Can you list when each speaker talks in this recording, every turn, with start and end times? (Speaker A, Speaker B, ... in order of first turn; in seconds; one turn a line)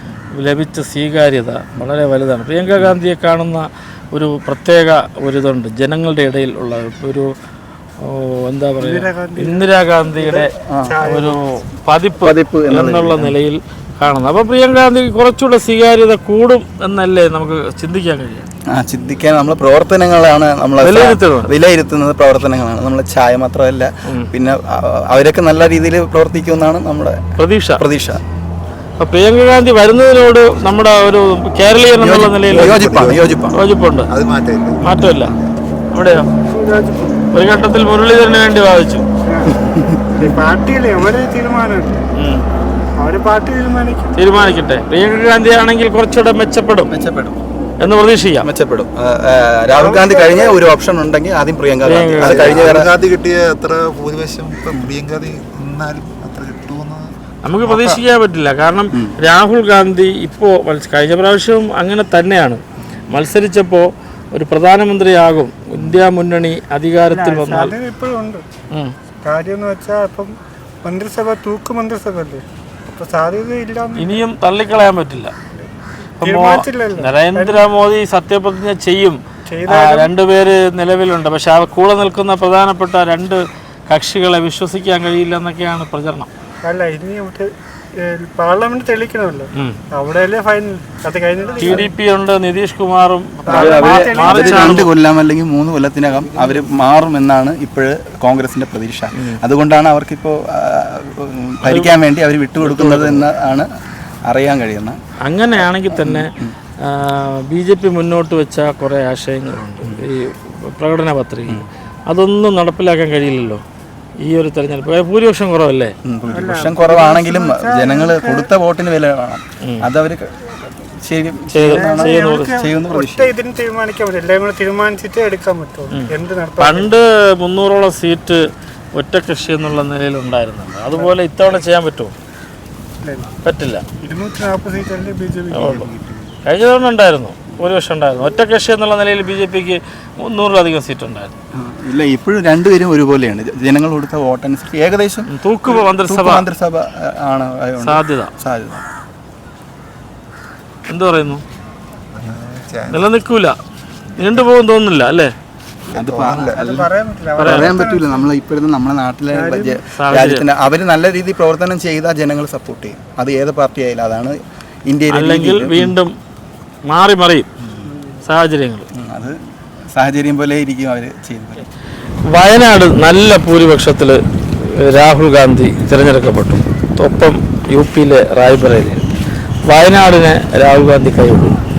Speaker A: 0.3-7.3
Speaker A: 8.0-10.5
Speaker B: 8.8-11.4
Speaker A: 11.0-18.5
Speaker C: 12.2-13.4
Speaker C: 18.7-27.2
Speaker A: 20.8-21.5
Speaker A: 27.4-27.8
Speaker C: 27.8-28.2
Speaker A: 29.0-34.1
Speaker C: 32.0-33.6
Speaker D: 32.5-33.0
Speaker D: 34.1-35.5
Speaker A: 34.8-35.3
Speaker A: 35.9-36.3
Speaker B: 36.5-37.3
Speaker A: 37.3-39.1
Speaker B: 39.3-39.6
Speaker C: 39.5-40.3
Speaker B: 40.1-42.1
Speaker A: 42.2-42.5
Speaker B: 43.0-44.1
Speaker A: 44.2-46.9
Speaker C: 46.9-47.4
Speaker A: 47.8-48.5
Speaker C: 48.4-52.9
Speaker B: 49.8-50.6
Speaker A: 51.8-52.8
Speaker D: 52.2-57.1
Speaker A: 57.5-67.8
Speaker D: 57.6-58.0
Speaker B: 67.1-68.4
Speaker B: 69.2-70.3
Speaker B: 70.8-74.2
Speaker A: 74.0-75.3
Speaker A: 76.2-86.3
Speaker B: 76.2-77.7
Speaker B: 79.5-80.1
Speaker B: 86.7-91.9
Speaker A: 91.6-94.9
Speaker B: 93.5-94.8
Speaker C: 93.5-103.7
Speaker A: 101.7-101.9
Speaker A: 102.6-103.2
Speaker C: 104.3-105.0
Speaker A: 105.3-113.6
Speaker C: 105.9-106.5
Speaker A: 114.2-116.0
Speaker C: 116.0-123.3
Speaker B: 116.3-118.5
Speaker A: 121.5-122.5
Speaker B: 121.7-126.9
Speaker A: 125.9-132.1
Speaker B: 133.0-133.3
Speaker A: 133.4-133.8
Speaker B: 134.0-136.3
Speaker A: 135.5-135.9
Speaker A: 136.5-141.4
Speaker C: 141.6-148.8
Speaker A: 145.3-146.5
Speaker A: 147.8-148.3
Speaker A: 150.9-151.4
Speaker D: 152.2-153.1
Speaker A: 152.9-153.6
Speaker A: 154.2-155.3
Speaker C: 155.9-165.9
Speaker D: 156.0-156.6
Speaker B: 156.1-158.2
Speaker A: 157.4-157.7
Speaker B: 159.3-159.8
Speaker A: 159.9-160.5
Speaker A: 165.1-166.1
Speaker A: 166.9-167.5
Speaker A: 168.2-168.9
Speaker C: 168.9-169.4
Speaker C: 169.9-171.7
Speaker A: 172.3-179.1
Speaker A: 179.7-181.6